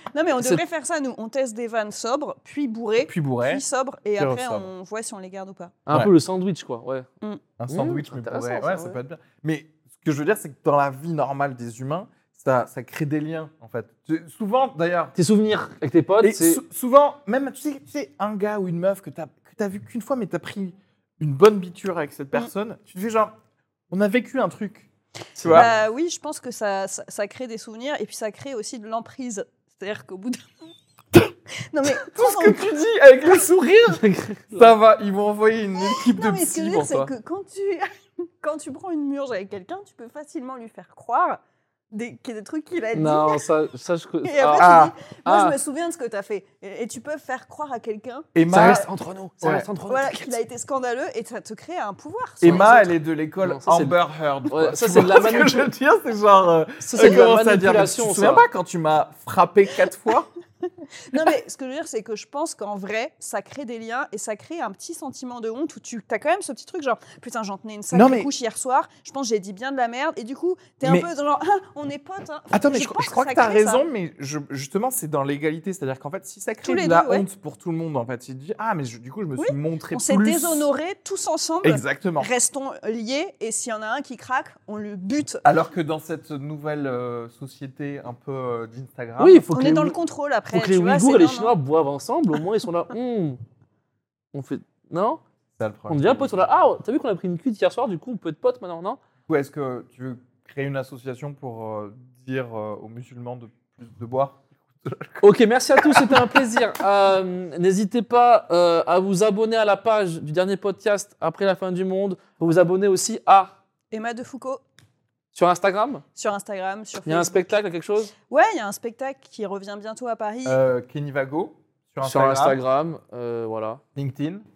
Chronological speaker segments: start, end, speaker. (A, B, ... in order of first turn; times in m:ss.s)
0:00.1-0:05.7 A
0:00.4-0:00.6 B
0:03.0-0:03.6 C
0:04.2-0:04.7 C
0:05.8-0:07.1 B
0:07.6-0:15.1 C
0:07.7-0:09.0 B
0:15.2-0:16.6 B
0:16.2-0:23.3 C
0:23.9-0:24.9 C
0:25.4-0:25.7 B
0:25.4-0:25.7 C
0:25.5-0:30.4 A
0:31.7-0:32.8 A
0:31.9-0:37.1 C
0:33.9-0:34.7 B
0:35.8-0:37.9 A
0:38.4-0:41.4 A
0:41.9-0:43.5 A
0:42.9-0:45.6 B
0:44.2-0:48.8 A
0:44.6-0:44.9 C
0:48.3-0:48.9 C
0:48.5-0:50.4 B
0:49.4-0:49.7 C
0:49.9-0:52.9 A
0:52.4-1:00.3 C
0:53.4-0:54.0 B
0:54.5-0:55.7 B
0:56.8-0:58.4 B
1:01.1-1:13.8 A
1:07.9-1:08.3 C
1:12.5-1:20.7 C
1:16.6-1:17.2 A
1:19.4-1:25.4 A
1:21.6-1:22.3 C
1:25.4-1:29.5 C
1:29.2-1:30.0 B
1:29.5-1:31.5 A
1:30.5-1:33.4 B
1:34.3-1:35.2 B
1:35.6-1:36.4 C
1:35.9-1:39.0 B
1:39.3-1:46.4 C
1:45.2-1:53.6 B
1:53.9-1:54.6 A
1:55.3-1:56.0 B
1:56.2-1:57.5 A
1:57.0-1:58.1 B
1:58.3-2:00.6 A
2:00.4-2:02.6 C
2:02.0-2:03.8 B
2:03.9-2:04.4 C